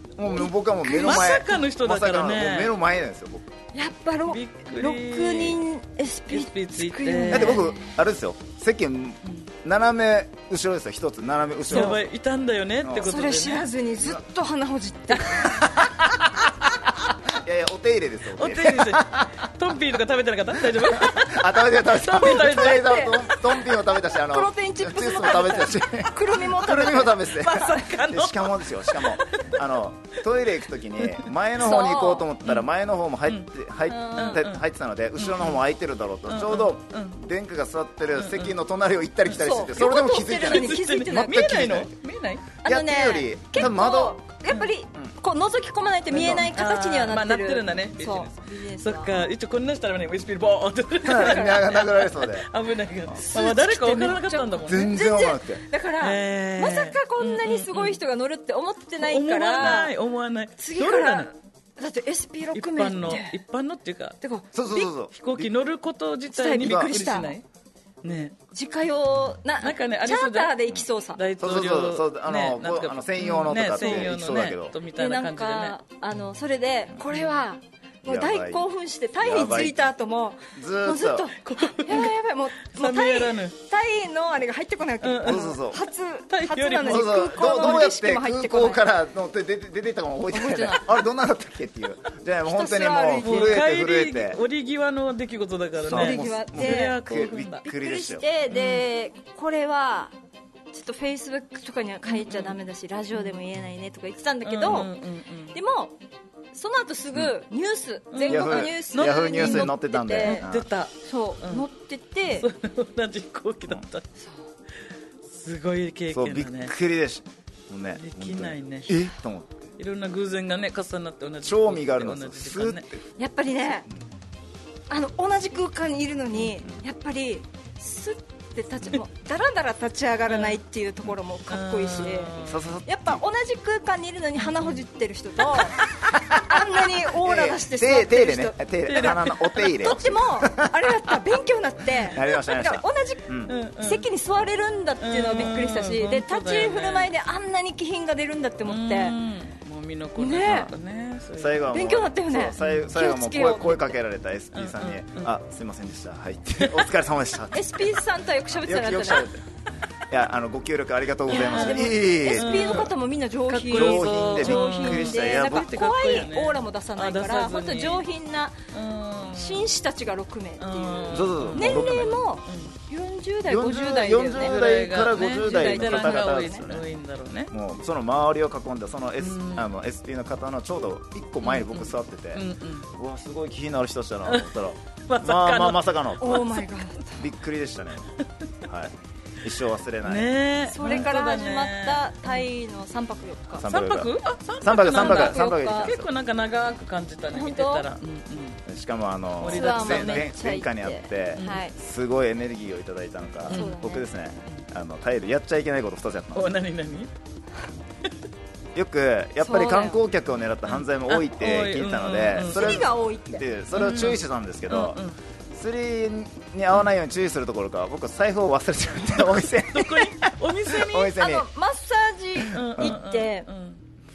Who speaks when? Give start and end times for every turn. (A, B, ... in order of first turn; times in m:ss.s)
0:00.2-0:03.5 A
0:00.3-0:02.7 B
0:00.8-0:01.2 C
0:03.7-0:07.9 C
0:04.3-0:05.6 B
0:06.3-0:07.7 B
0:07.3-0:12.0 A
0:11.7-0:13.7 B
0:11.7-0:12.0 C
0:12.8-0:13.1 A
0:13.0-0:15.6 C
0:15.4-0:19.5 A
0:18.4-0:23.2 B
0:20.6-0:41.9 A
0:22.2-0:23.4 C
0:24.1-0:27.6 C
0:27.2-0:29.6 B
0:31.0-0:31.3 B
0:31.6-0:32.3 C
0:33.9-0:34.4 C
0:34.1-0:34.6 B
0:35.2-0:35.6 B
0:36.3-0:37.2 B
0:38.2-0:38.6 B
0:39.3-0:41.7 C
0:40.4-0:42.5 B
0:42.6-0:49.1 C
0:42.6-0:44.2 A
0:46.1-0:46.4 A
0:46.1-0:54.9 B
0:51.0-0:52.5 A
0:51.1-0:51.8 C
0:53.3-0:59.9 C
0:54.6-0:55.6 A
0:56.0-0:58.0 B
0:59.0-1:01.3 B
1:00.6-1:03.4 C
1:02.5-1:04.2 B
1:04.2-1:04.9 C
1:04.5-1:05.5 A
1:05.1-1:07.4 B
1:06.3-1:07.4 C
1:06.6-1:06.9 A
1:08.0-1:08.3 B
1:08.5-1:11.2 C
1:09.6-1:15.8 B
1:11.4-1:14.7 A
1:13.8-1:14.1 C
1:14.9-1:28.8 C
1:18.0-1:18.6 A
1:19.2-1:19.8 A
1:20.5-1:21.3 A
1:21.4-1:23.6 B
1:25.0-1:25.6 B
1:25.2-1:25.8 A
1:26.3-1:27.9 B
1:26.8-1:34.4 A
1:30.3-1:31.0 C
1:32.4-1:33.6 C
1:33.2-1:37.6 B
1:35.8-1:38.2 A
1:35.9-1:40.1 C
1:38.5-1:38.8 B
1:40.7-1:45.0 C
1:42.1-1:42.6 B
1:44.4-1:45.5 B
1:45.5-1:46.0 C
1:46.5-1:50.4 C
1:48.1-1:51.6 B
1:48.2-1:50.7 A
1:51.0-1:52.5 C
1:52.3-1:54.1 B
1:55.2-1:56.7 B
1:56.1-1:59.7 A
1:58.0-1:59.0 B
1:59.8-2:02.8 B
2:01.4-2:03.0 A
2:03.2-2:03.9 C
2:04.9-2:19.1 C
2:10.3-2:10.6 B
2:11.5-2:12.6 B
2:12.4-2:13.2 A
2:14.4-2:14.8 B
2:16.0-2:20.9 A
2:18.9-2:20.0 B
2:19.8-2:29.2 C
2:22.1-2:23.6 A
2:23.5-2:24.1 B
2:25.0-2:27.1 B
2:28.6-2:31.7 B
2:30.2-2:30.7 C
2:31.4-2:38.0 A
2:31.7-2:33.9 C
2:32.6-2:32.9 B
2:34.5-2:35.3 B
2:36.6-2:36.8 B
2:37.5-2:39.3 C
2:38.5-2:39.4 A
2:40.1-2:42.9 A
2:41.3-2:48.6 C
2:41.4-2:42.9 B
2:43.5-2:48.0 B
2:43.7-2:46.2 A
2:48.7-2:49.7 B
2:49.2-2:54.6 C
2:50.6-2:52.7 B
2:51.1-2:52.2 A
2:53.5-2:56.9 A
2:54.3-2:57.5 B
2:55.1-2:56.6 C
2:57.5-3:06.4 A
2:59.2-2:59.7 B
3:01.4-3:02.9 B
3:05.1-3:06.6 B
3:06.2-3:07.2 C
3:07.2-3:08.1 A
3:08.6-3:10.3 A
3:10.0-3:12.4 B
3:10.6-3:13.7 C
3:13.6-3:16.1 A
3:13.6-3:18.6 B
3:14.8-3:15.9 C
3:17.3-3:17.9 C
3:18.7-3:26.5 A
3:19.4-3:20.3 B
3:19.4-3:21.7 C
3:23.5-3:24.1 C
3:23.5-3:23.8 B
3:26.3-3:27.1 B
3:28.7-3:35.0 A
3:29.4-3:30.0 C
3:30.7-3:32.9 B
3:32.4-3:33.4 C
3:33.7-3:35.2 B
3:35.5-3:41.4 A
3:39.4-3:41.2 B
3:41.0-3:43.5 C
3:42.4-3:43.8 B